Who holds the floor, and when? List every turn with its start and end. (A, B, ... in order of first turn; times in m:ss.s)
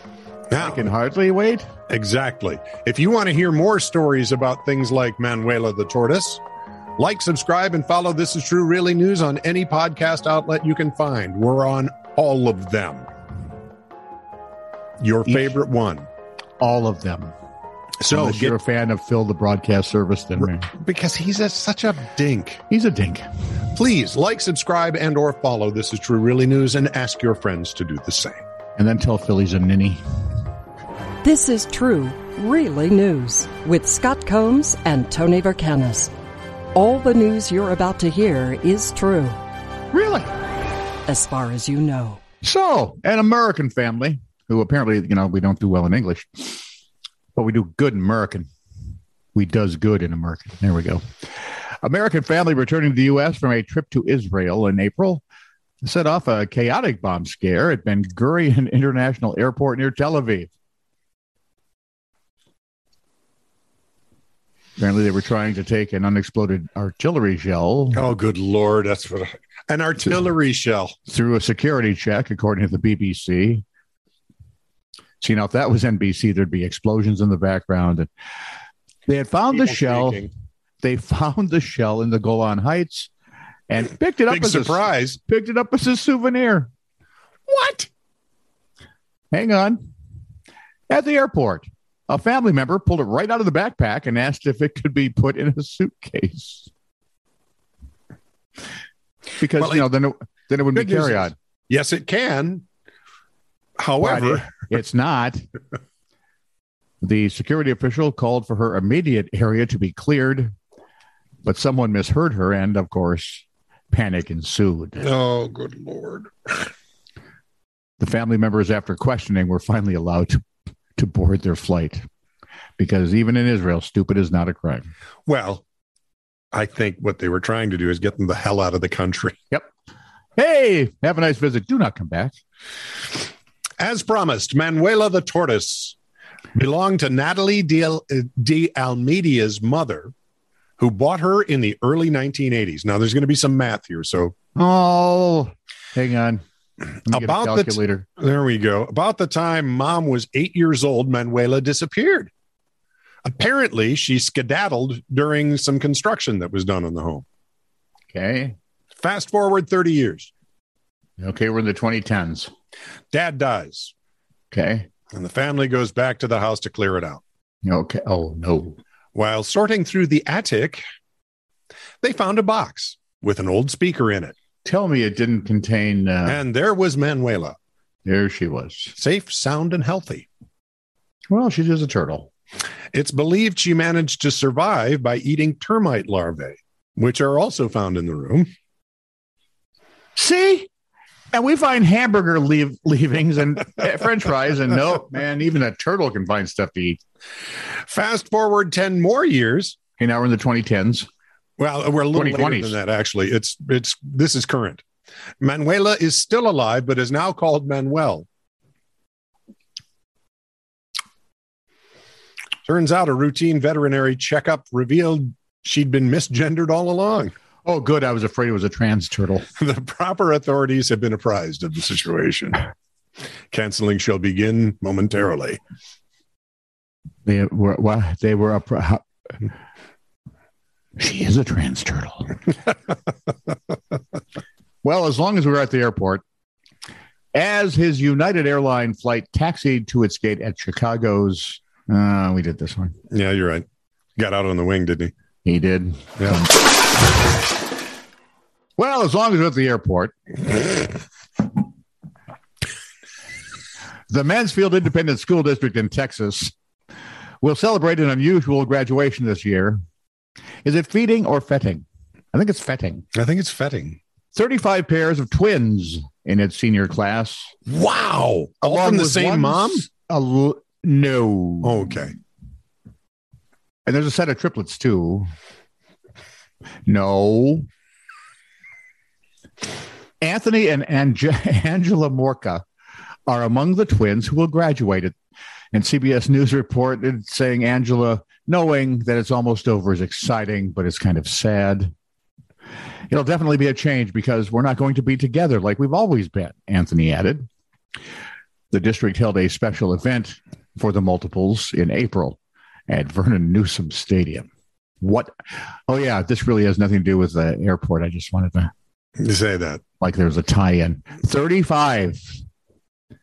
0:00.5-0:00.9 A
0:00.6-0:01.7 B
0:01.9-0:06.4 A
0:07.0-0:13.1 A
0:15.0-0:16.1 A
0:15.3-0:15.5 B
0:16.6-0:17.3 B
0:18.0-0:18.6 A
0:18.1-0:20.7 B
0:20.4-0:22.6 A
0:22.7-0:23.2 B
0:23.7-0:28.4 A
0:28.8-0:30.0 B
0:31.2-0:36.1 C
0:36.7-0:39.4 C
0:39.9-0:40.3 B
0:41.1-0:42.2 C
0:42.4-0:46.6 B
0:47.3-0:48.5 B
0:49.3-0:51.0 B
0:51.8-0:55.2 B
0:55.8-1:00.5 B
1:04.8-1:08.0 B
1:07.9-1:10.9 A
1:11.1-1:13.6 B
1:15.2-1:18.1 B
1:19.1-1:20.3 B
1:19.5-1:20.3 A
1:20.8-1:23.1 B
1:23.7-1:26.7 B
1:24.3-1:25.2 A
1:27.5-1:27.9 A
1:29.3-1:29.9 B
1:30.9-1:36.7 B
1:39.4-1:41.3 B
1:39.6-1:39.9 A
1:40.7-1:42.6 A
1:43.8-1:44.6 A
1:44.0-1:45.4 B
1:47.0-1:50.5 B
1:51.4-1:55.1 B
1:55.0-1:56.6 A
1:58.0-2:00.4 B
2:01.0-2:02.0 B
2:02.8-2:04.8 B
2:05.3-2:05.6 A
2:06.5-2:09.4 A
2:10.4-2:12.3 B
2:13.8-2:16.0 A
2:16.5-2:20.1 A
2:20.8-2:24.3 A
2:24.6-2:26.4 B
2:27.0-2:28.0 B
2:27.1-2:32.3 A
2:33.2-2:37.2 A
2:38.1-2:38.6 B
2:39.0-2:40.3 A
2:41.2-2:42.5 B
2:43.1-2:43.9 A
2:44.5-2:44.9 B
2:45.1-2:47.2 A
2:47.6-2:48.8 B
2:49.1-2:50.8 A
2:52.0-2:54.3 A
2:54.6-2:56.4 B
2:56.2-2:57.6 A
2:58.0-2:58.9 B
2:58.9-3:00.3 A
3:01.3-3:02.3 B
3:02.9-3:08.5 A
3:10.2-3:10.7 B
3:11.3-3:17.0 B
3:17.9-3:19.8 A
3:20.0-3:21.1 B
3:21.6-3:24.8 A
3:22.1-3:22.8 B
3:25.4-3:28.3 A
3:32.6-3:37.3 A
3:37.6-3:39.4 B
3:39.6-3:42.6 A
3:43.5-3:45.6 A
3:47.2-3:49.0 B
3:51.0-3:52.4 B
3:54.8-3:56.2 B
3:57.3-4:02.9 B
4:03.1-4:03.6 A
4:04.2-4:05.1 A
4:05.4-4:06.5 B
4:08.8-4:10.1 B
4:14.1-4:16.5 B
4:17.4-4:19.8 B
4:20.6-4:23.0 B
4:23.1-4:24.0 A
4:24.3-4:27.5 B
4:27.6-4:29.9 A
4:28.6-4:31.9 B
4:31.6-4:32.1 A
4:33.8-4:35.3 B
4:36.8-4:37.7 B
4:40.2-4:42.6 B
4:43.3-4:45.1 B
4:45.7-4:51.9 B
4:53.1-4:57.5 B
4:58.7-5:04.5 B
5:05.0-5:05.3 B
5:05.9-5:08.7 B
5:09.2-5:09.8 A
5:10.0-5:12.4 B